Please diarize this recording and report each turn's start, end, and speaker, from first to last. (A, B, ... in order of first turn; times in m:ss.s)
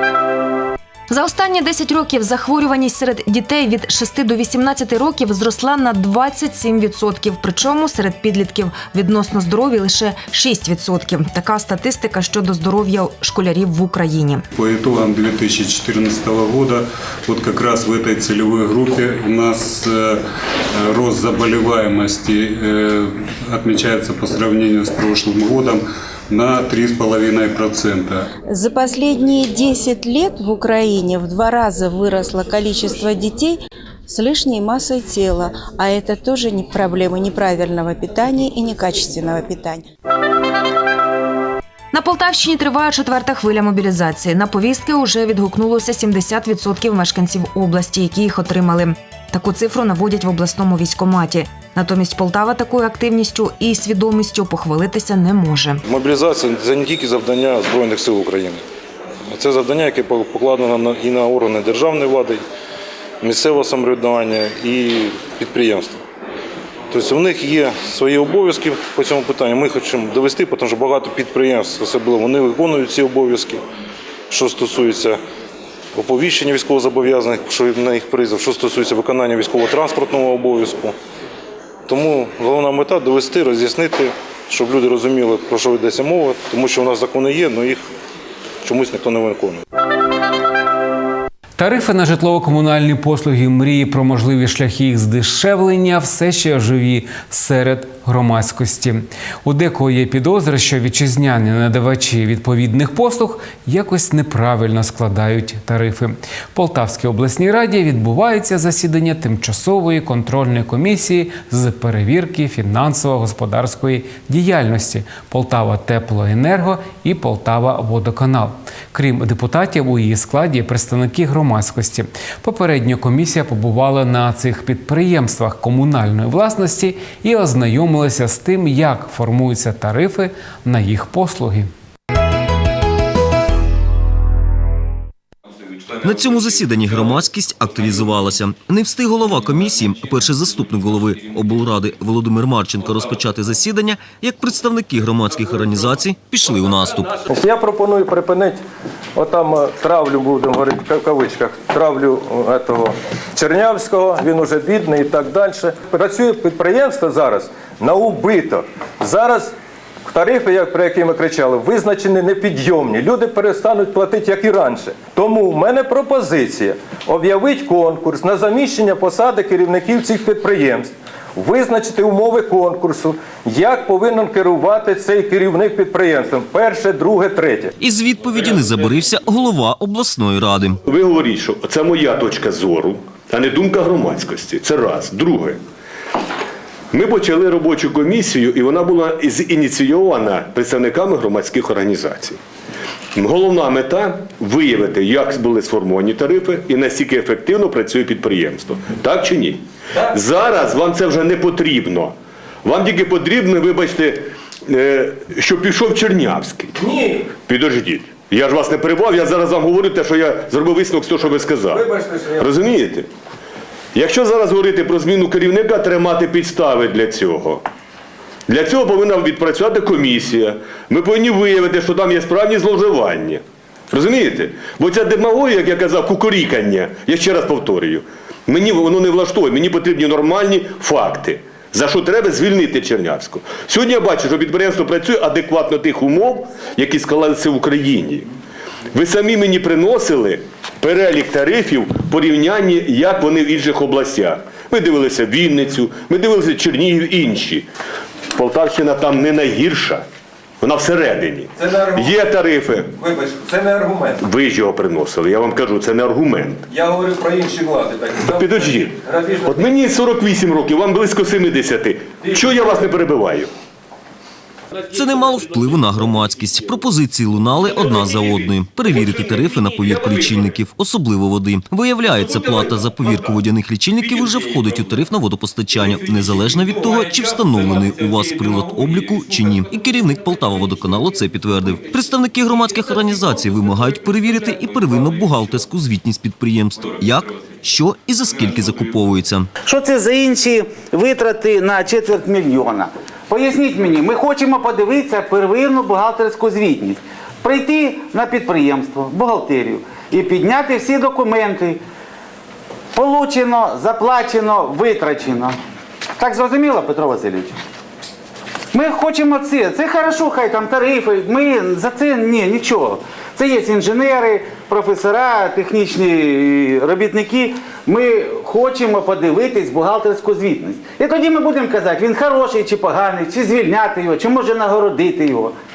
0:01.1-0:14.4 A
0:14.5-0:20.2 B
0:20.7-0:28.3 B
0:28.5-0:39.8 C
0:41.9-0:55.8 A
0:55.8-0:58.6 D
0:59.3-1:02.4 D
1:03.2-1:06.0 D
1:06.9-1:13.6 D
1:14.3-1:15.2 D
1:16.0-1:20.9 D
1:21.9-1:27.8 D
1:28.6-1:29.6 D
1:31.6-2:11.7 E
2:16.0-2:27.2 F
2:27.2-2:28.6 G
2:29.1-2:39.5 G
2:40.0-2:57.7 G
2:57.8-3:00.8 F
3:00.8-3:05.6 H
3:06.9-3:12.4 H
3:13.2-3:26.7 H
3:26.8-3:27.3 G
3:27.3-3:31.8 H
3:31.5-3:32.6 G
3:32.4-3:33.1 H
3:33.9-3:37.6 H
3:38.5-3:58.3 H
3:58.9-4:07.7 H
4:08.3-4:10.0 H
4:10.6-4:12.9 H
4:11.6-4:12.2 G
4:13.0-4:14.2 G
4:14.2-4:16.6 H
4:16.7-4:19.7 G
4:18.3-4:23.5 H
4:24.9-4:49.5 F
4:49.7-5:01.8 I
5:02.9-5:05.6 I
5:06.2-5:07.6 I
5:08.7-5:25.5 I